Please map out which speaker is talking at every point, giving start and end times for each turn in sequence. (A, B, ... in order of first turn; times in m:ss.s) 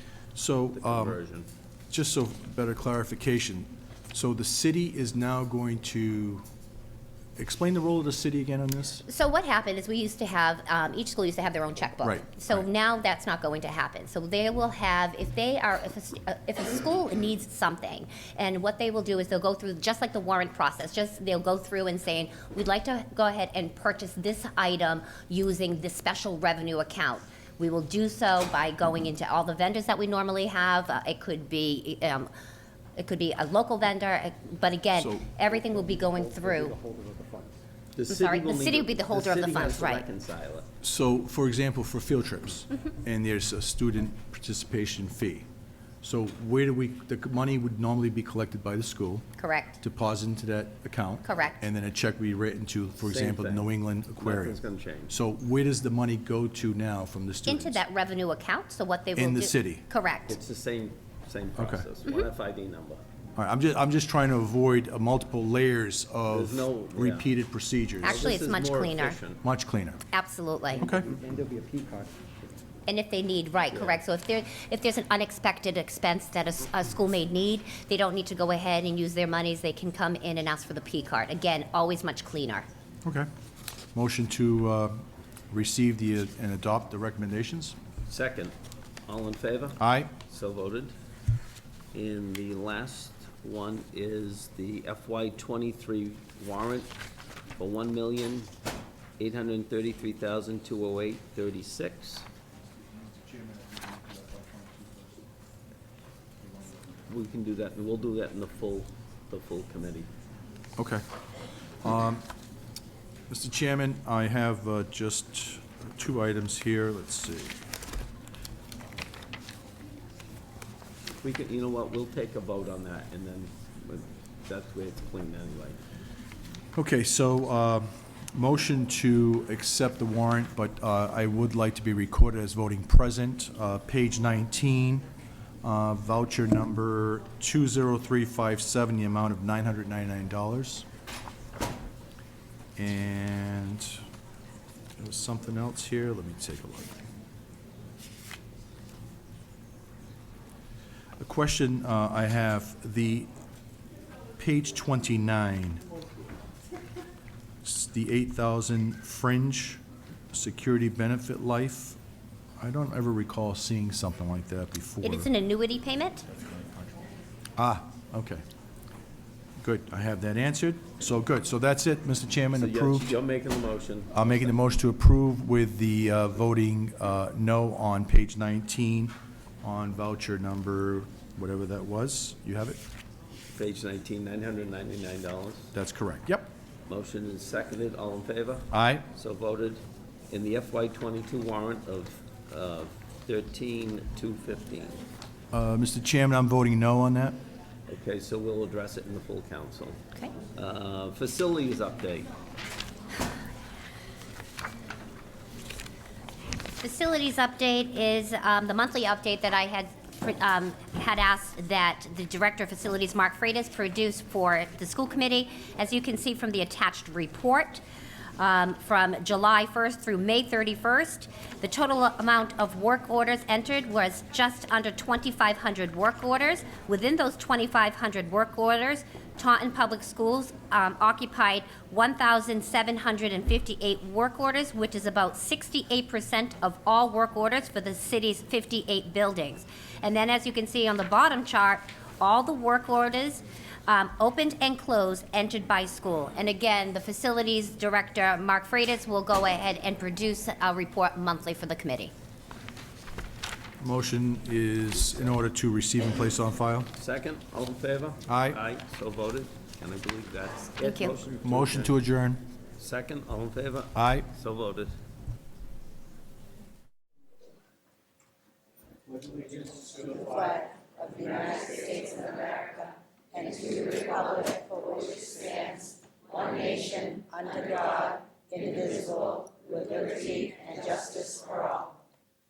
0:00.3-0:01.2 A
0:00.7-0:01.5 B
0:01.9-0:06.4 A
0:07.4-0:09.0 A
0:09.1-0:32.3 C
0:12.0-0:12.6 A
0:33.0-0:36.7 C
0:34.9-0:35.3 A
0:35.5-0:36.2 D
0:36.8-0:37.5 D
0:38.0-0:40.7 B
0:38.1-0:40.0 C
0:40.8-0:45.4 A
0:46.0-0:49.2 A
0:49.4-0:49.8 C
0:49.8-0:57.8 A
0:51.2-0:51.6 C
0:53.0-0:53.7 B
0:54.2-0:55.1 B
0:57.5-1:00.4 C
0:59.2-0:59.8 A
1:00.3-1:03.0 B
1:01.6-1:01.9 A
1:03.4-1:08.3 A
1:06.3-1:07.3 B
1:08.0-1:09.2 C
1:08.0-1:09.4 B
1:09.4-1:10.0 A
1:10.1-1:10.9 C
1:10.8-1:11.1 A
1:10.8-1:12.0 D
1:12.9-1:22.6 C
1:13.7-1:14.0 B
1:23.9-1:27.8 A
1:28.1-1:28.5 B
1:29.1-1:30.9 B
1:29.8-1:30.1 A
1:31.9-1:36.9 B
1:37.6-1:38.5 B
1:39.2-1:42.2 B
1:42.9-1:45.2 A
1:46.4-1:47.0 A
1:47.1-1:50.1 B
1:50.8-1:51.0 A
1:51.8-1:52.2 A
1:53.3-1:57.6 A
2:01.2-2:05.8 B
2:06.8-2:15.0 A
2:15.6-2:20.8 A
2:22.8-2:24.0 A
2:25.0-2:27.0 A
2:31.2-2:33.3 A
2:34.4-2:35.8 A
2:37.6-2:39.8 A
2:40.3-2:42.0 A
2:42.6-2:45.3 A
2:45.0-2:46.2 C
2:47.6-2:48.4 A
2:49.6-2:53.1 A
2:52.5-2:54.5 B
2:54.1-3:02.8 A
3:03.5-3:05.7 B
3:05.7-3:06.5 A
3:06.9-3:15.0 B
3:08.7-3:09.0 A
3:15.5-3:17.4 A
3:17.9-3:20.0 B
3:20.5-3:22.3 B
3:26.8-3:37.8 C
3:38.4-4:12.1 C
4:13.8-4:16.9 A
4:17.0-4:21.9 B
4:18.3-4:18.6 A
4:20.8-4:21.1 C
4:21.4-4:22.4 A
4:22.8-4:24.9 B
4:23.9-4:24.3 A
4:29.3-4:42.0 D